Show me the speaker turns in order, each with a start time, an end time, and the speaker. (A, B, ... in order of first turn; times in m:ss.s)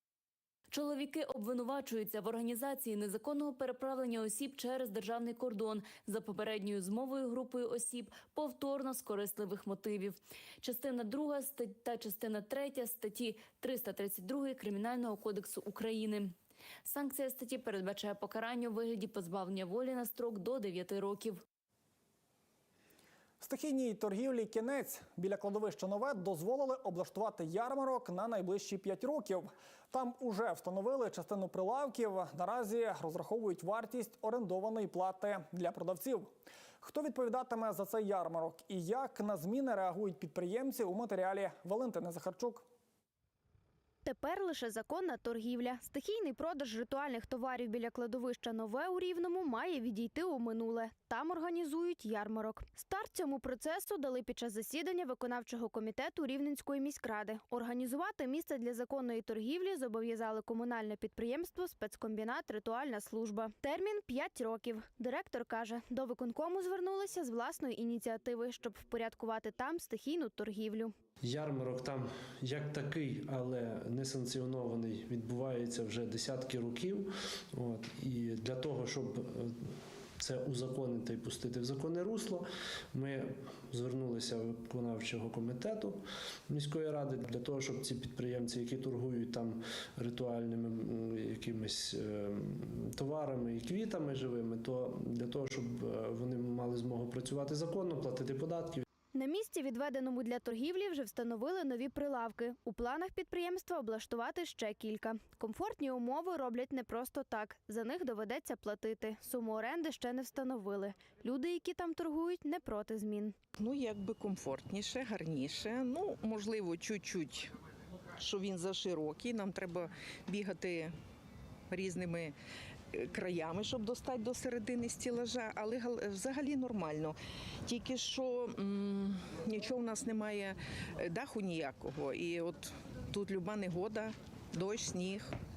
0:00.7-0:16.3 A
0:16.8-0:21.4 A
0:23.4-0:42.7 B
0:44.0-1:10.9 C
1:11.2-1:38.8 D
1:39.1-1:53.4 C
1:53.6-1:57.5 E
1:58.2-2:00.9 E
2:01.7-2:02.3 E
2:03.1-2:07.2 E
2:07.7-2:15.3 E